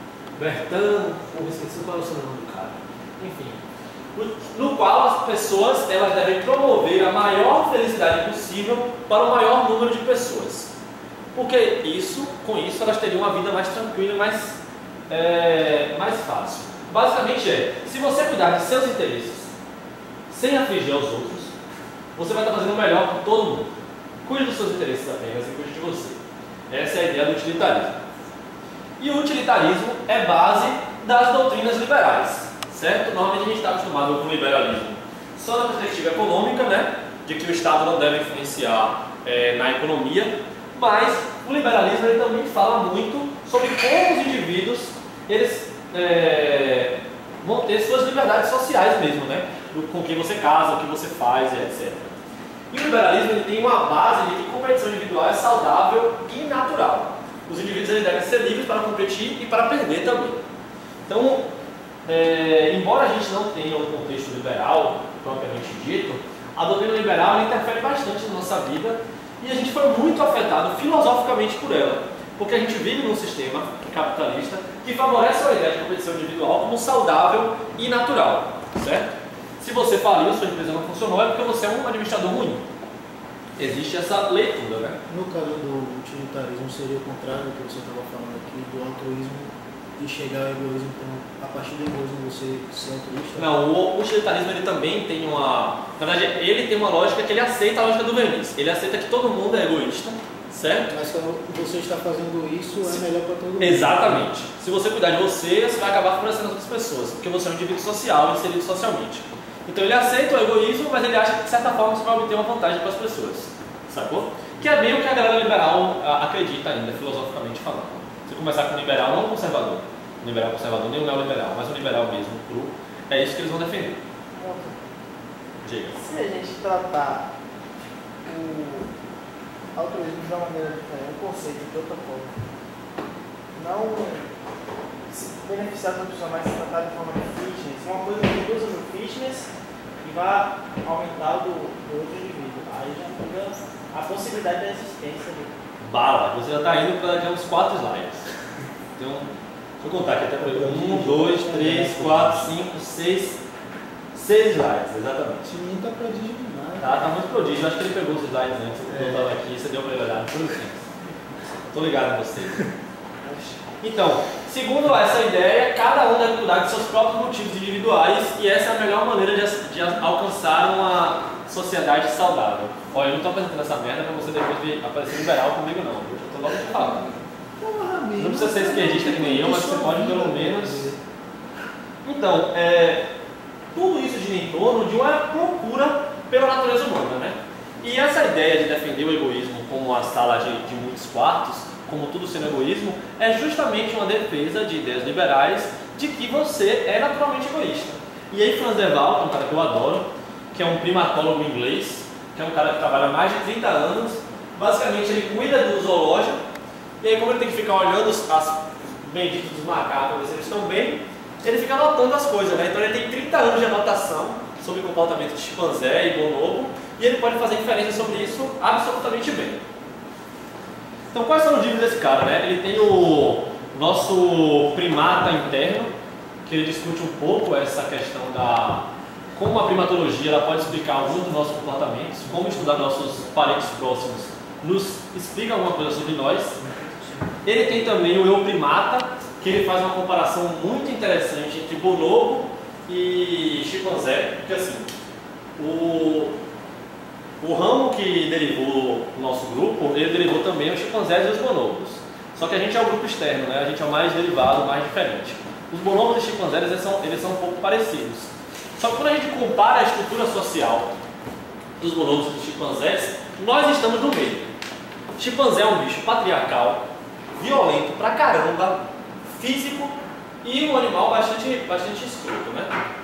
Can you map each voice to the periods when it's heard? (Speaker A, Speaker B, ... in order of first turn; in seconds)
Speaker A: 0.4-3.6, 4.1-10.7, 11.3-14.6, 15.1-19.5, 20.3-21.5, 22.1-23.7, 24.2-28.0, 29.0-52.1, 52.7-60.4, 61.1-61.5, 62.0-82.6, 83.6-85.0, 93.3-100.9, 103.6-124.0, 125.6-126.0, 145.8-148.3, 148.9-149.3, 149.8-153.4, 154.1-155.6, 156.8-160.8, 161.7-162.7, 163.8-177.2, 178.2-180.9, 182.0-183.1, 183.7-206.4, 207.0-219.6, 221.1-225.9, 226.4-236.6, 237.4-244.9, 245.6-246.4, 247.4-260.9, 261.8-264.5, 265.2-266.8, 267.4-272.7
Speaker B: 85.1-93.5, 100.9-104.3, 150.4-152.5, 155.5-157.1, 158.9-159.3, 177.6-181.0, 236.6-237.3
Speaker C: 124.3-124.8, 125.9-127.3, 128.2-128.9, 129.7-132.3, 133.5-134.3, 135.1-139.5, 140.0-145.5